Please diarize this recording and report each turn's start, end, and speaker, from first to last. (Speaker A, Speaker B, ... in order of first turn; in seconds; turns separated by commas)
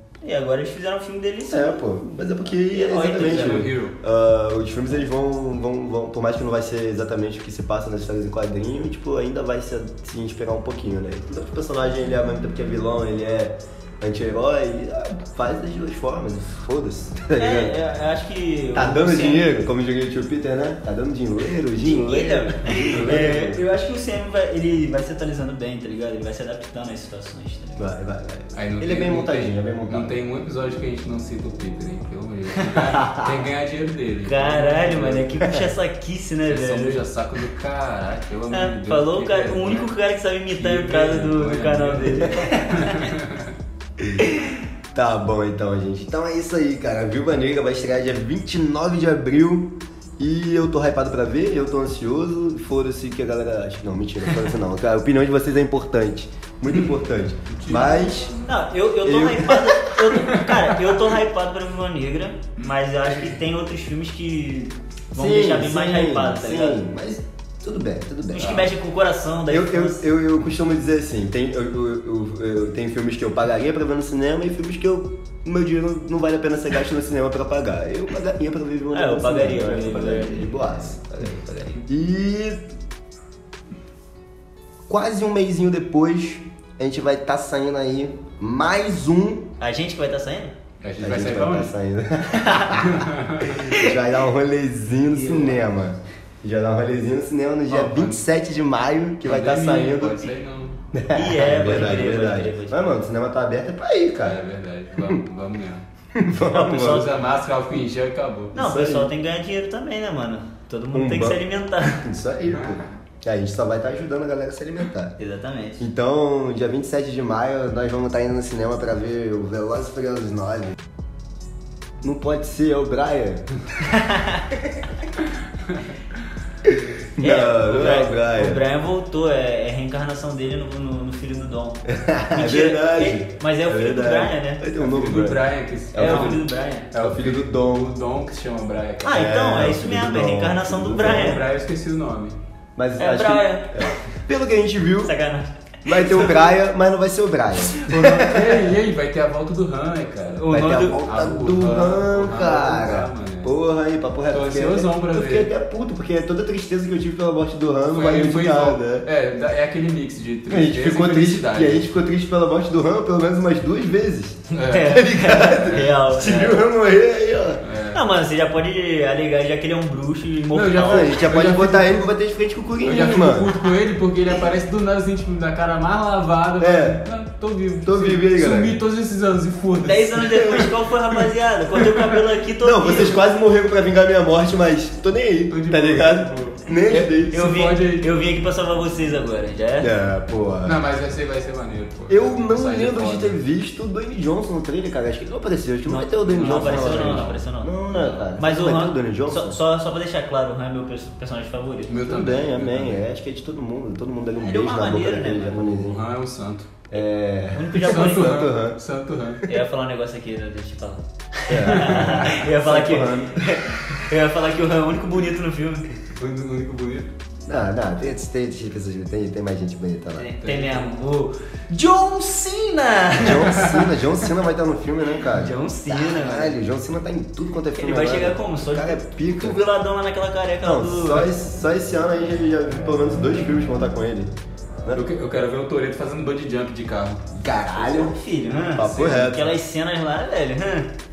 Speaker A: 0.2-1.8, Speaker B: 1.5-17.8, Speaker A: 2.7-3.7, Speaker C: 3.1-4.0, Speaker A: 17.4-19.7, Speaker B: 18.7-23.6, Speaker A: 21.8-27.9, Speaker B: 27.8-30.2, Speaker C: 28.5-35.3, Speaker A: 32.6-32.9, Speaker B: 33.0-33.3, Speaker A: 34.2-37.0, Speaker C: 36.5-39.9, Speaker A: 38.5-43.1, Speaker C: 40.5-43.5, Speaker B: 44.0-44.3, Speaker A: 44.2-44.6, Speaker B: 44.9-58.3, Speaker C: 57.5-58.3, Speaker A: 57.7-66.8, Speaker B: 59.0-60.1, Speaker B: 65.1-68.7, Speaker A: 68.3-70.1, Speaker C: 68.4-68.7, Speaker B: 69.5-81.1, Speaker A: 78.9-81.8, Speaker B: 81.8-82.7, Speaker B: 84.9-89.5, Speaker A: 89.6-90.5, Speaker C: 90.8-91.7, Speaker B: 91.0-100.3, Speaker A: 92.4-92.7, Speaker C: 92.8-93.8, Speaker A: 95.1-95.7, Speaker C: 97.7-98.2, Speaker C: 99.2-100.8, Speaker B: 100.9-104.4, Speaker A: 101.1-103.0, Speaker C: 104.2-105.8, Speaker B: 106.1-107.1, Speaker A: 106.5-107.1, Speaker C: 106.8-108.5, Speaker B: 108.5-109.1, Speaker A: 108.5-112.0, Speaker B: 110.9-115.2, Speaker A: 115.2-115.8, Speaker B: 115.8-120.8, Speaker B: 122.0-123.5, Speaker A: 123.8-124.5, Speaker B: 124.5-124.8, Speaker B: 126.6-128.6, Speaker A: 127.2-134.6, Speaker B: 131.9-136.4, Speaker C: 134.8-139.2, Speaker A: 135.9-136.9, Speaker B: 137.0-137.9, Speaker A: 139.0-141.4, Speaker B: 139.1-141.4, Speaker C: 141.0-142.4, Speaker B: 142.8-145.1, Speaker A: 143.0-143.9, Speaker A: 145.0-146.5, Speaker B: 145.8-148.6, Speaker A: 147.6-148.5, Speaker C: 148.0-153.5, Speaker A: 150.3-151.0, Speaker B: 150.5-159.1, Speaker C: 154.3-155.5, Speaker C: 157.9-161.9, Speaker B: 160.5-167.7, Speaker A: 164.5-166.6, Speaker C: 164.6-165.9, Speaker C: 167.6-168.0, Speaker A: 167.9-171.2, Speaker C: 170.5-172.1, Speaker B: 170.8-173.6, Speaker C: 172.8-180.8, Speaker B: 176.6-177.1, Speaker B: 177.8-178.8, Speaker A: 179.8-183.2, Speaker C: 181.8-182.2, Speaker B: 182.6-187.5, Speaker C: 185.5-188.1, Speaker A: 186.9-189.9, Speaker B: 189.8-190.8, Speaker C: 190.6-193.4, Speaker B: 192.1-199.6, Speaker A: 195.9-197.8, Speaker C: 196.2-197.4, Speaker C: 197.9-198.3, Speaker A: 198.4-201.9, Speaker C: 201.9-203.0, Speaker B: 202.0-206.0, Speaker A: 204.4-205.6, Speaker C: 205.6-206.7, Speaker B: 206.9-208.8, Speaker A: 207.5-208.5, Speaker C: 207.8-209.4, Speaker A: 209.5-215.9, Speaker B: 211.5-213.6, Speaker C: 216.1-217.1, Speaker B: 217.5-220.3, Speaker A: 220.2-223.7, Speaker C: 220.4-220.9, Speaker B: 223.2-229.6, Speaker C: 223.5-223.9, Speaker A: 225.3-226.6, Speaker A: 227.8-231.3, Speaker B: 230.6-234.3, Speaker C: 234.9-237.2, Speaker B: 237.3-238.2, Speaker A: 237.7-240.9, Speaker C: 238.8-239.3, Speaker B: 238.8-239.6